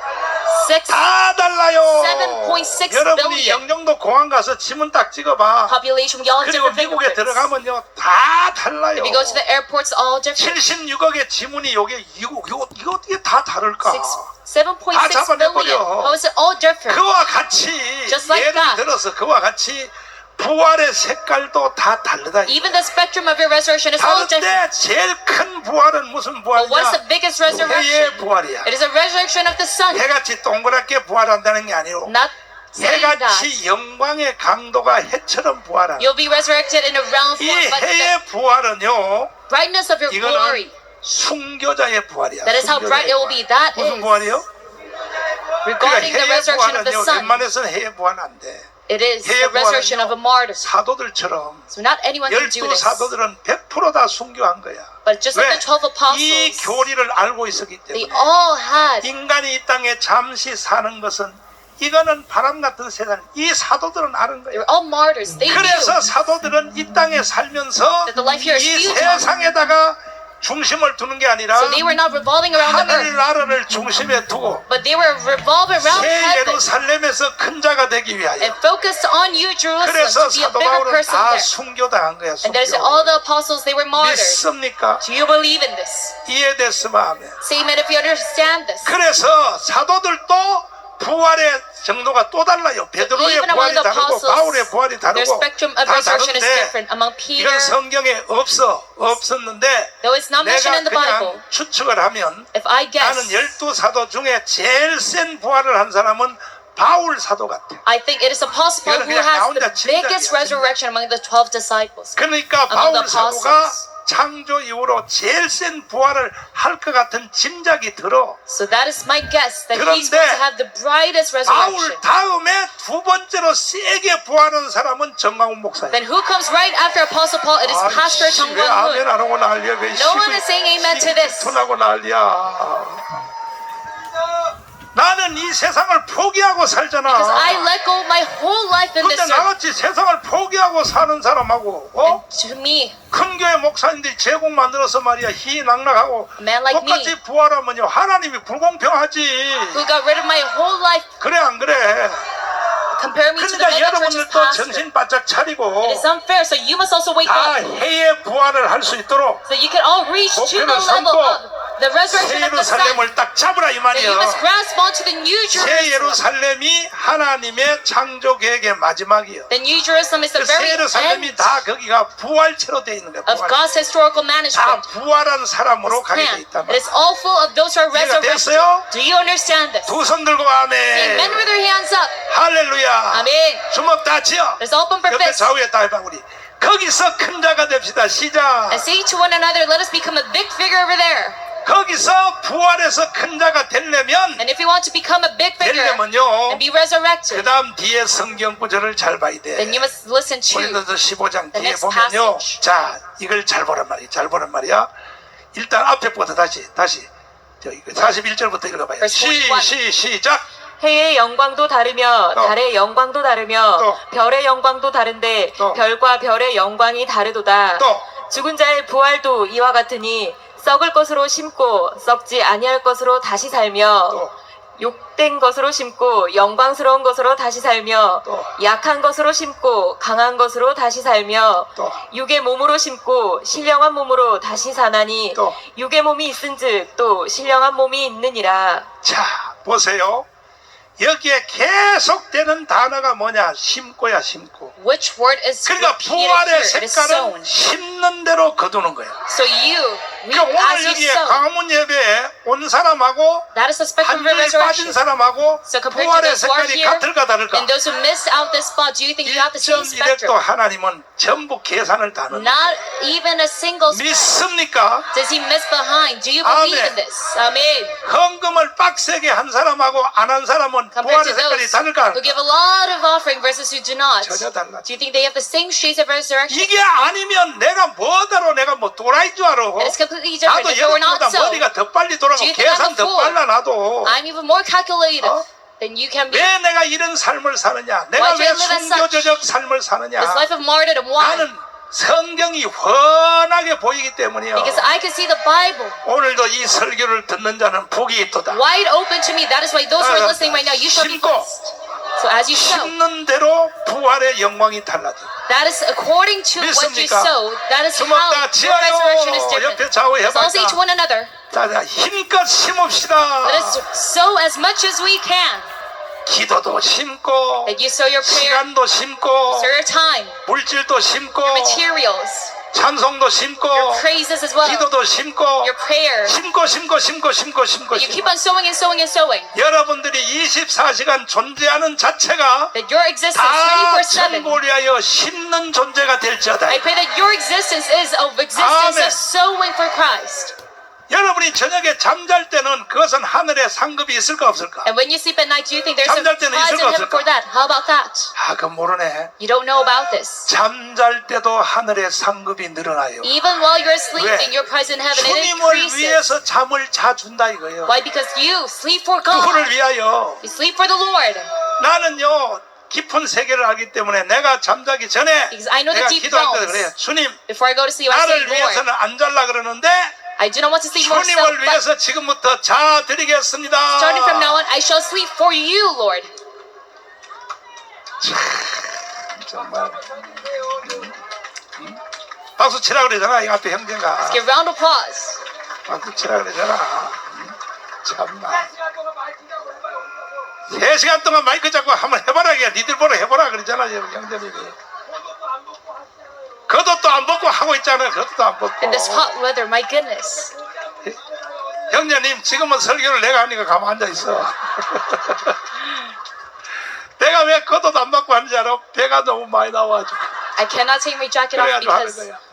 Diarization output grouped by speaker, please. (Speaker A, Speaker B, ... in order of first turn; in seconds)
Speaker A: 0.5-1.0, 1.9-3.7, 5.7-7.5, 8.9-10.6, 13.8-17.0, 18.1-18.8, 22.5-24.6, 26.5-30.1, 32.0-33.6, 36.0-38.1, 39.5-40.8, 42.4-44.4, 45.6-47.4, 48.9-50.6, 51.7-53.1, 55.0-56.8, 57.9-59.1, 64.5-66.1, 68.0-69.4, 71.5-73.1, 74.7-76.6, 78.4-81.5, 82.4-84.4, 85.0-86.2, 87.4-88.9, 93.0-97.8, 100.0-101.4, 102.5-103.3, 107.8-113.8, 118.5-122.0, 125.9-129.0, 129.9-131.6, 137.1-139.5, 142.0-143.0, 146.4-147.1, 149.7-151.1, 152.9-154.8, 155.8-157.6, 159.5-163.1, 163.9-166.2, 169.5-171.6, 173.2-174.8, 175.9-180.0, 180.9-182.2, 183.1-183.7, 184.6-185.5, 188.7-191.4, 194.4-197.5, 199.6-200.8, 201.5-202.6, 209.0-209.7, 244.8-247.5, 249.3-251.4, 253.5-255.0, 255.6-260.4, 262.3-264.3, 265.1-268.0, 270.9-276.7, 279.8-281.7, 282.4-283.4, 284.0-286.5, 288.1-289.4, 290.2-291.5, 294.5-296.0, 298.5-302.9, 305.5-311.3, 313.4-315.7, 317.6-318.6, 319.5-320.4, 321.4-322.5, 323.7-324.9, 325.6-326.4, 327.9-329.5, 332.7-334.6, 336.7-340.5, 344.8-348.3, 349.4-350.5, 353.2-356.2, 357.9-359.7, 360.4-361.5, 365.5-366.9, 367.5-368.9, 370.4-371.8, 374.0-376.3, 384.2-385.4, 398.8-400.5, 410.6-412.3
Speaker B: 0.9-5.8, 6.4-9.4, 10.3-14.3, 14.9-16.2, 16.9-22.9, 24.0-28.7, 29.9-32.1, 32.8-36.1, 37.4-39.3, 40.1-44.5, 45.8-48.7, 49.2-51.7, 52.3-58.3, 59.0-64.6, 65.4-72.0, 72.5-74.6, 75.8-78.6, 79.8-83.2, 84.0-85.0, 86.2-87.4, 88.8-96.7, 97.3-102.5, 103.0-107.8, 108.8-110.7, 112.2-118.4, 119.7-120.4, 121.5-126.0, 127.6-133.2, 134.9-137.7, 139.0-142.2, 143.1-149.9, 151.2-152.2, 153.3-156.1, 157.2-159.4, 160.3-161.4, 162.1-164.4, 165.5-169.5, 170.3-173.6, 174.5-176.8, 177.9-178.9, 179.8-181.5, 182.3-188.8, 191.6-194.4, 195.6-196.6, 197.3-199.9, 200.5-204.9, 205.5-207.1, 207.6-210.4, 217.8-218.1, 228.2-228.6, 231.8-232.0, 239.0-240.2, 241.0-244.7, 245.7-249.2, 250.3-253.5, 254.0-257.7, 259.2-262.7, 263.9-265.1, 266.4-267.0, 268.0-272.4, 274.2-274.9, 276.5-284.2, 286.3-290.5, 291.2-294.9, 296.0-298.6, 300.0-301.6, 302.5-305.3, 306.6-307.3, 307.9-310.8, 311.5-313.8, 316.2-319.7, 320.4-321.9, 322.7-324.1, 324.6-325.7, 326.2-328.3, 329.5-332.7, 333.3-336.8, 338.5-339.2, 341.1-344.9, 346.0-347.3, 348.3-349.3, 350.5-353.3, 354.1-354.5, 355.1-358.0, 359.3-360.4, 361.8-367.4, 368.1-370.1, 371.0-374.6, 378.2-381.2, 381.7-382.0, 382.6-384.4, 385.9-388.7, 390.6-394.8, 396.7-399.3, 401.9-406.0, 407.2-410.4, 411.5-412.4
Speaker C: 210.8-224.2, 224.8-238.9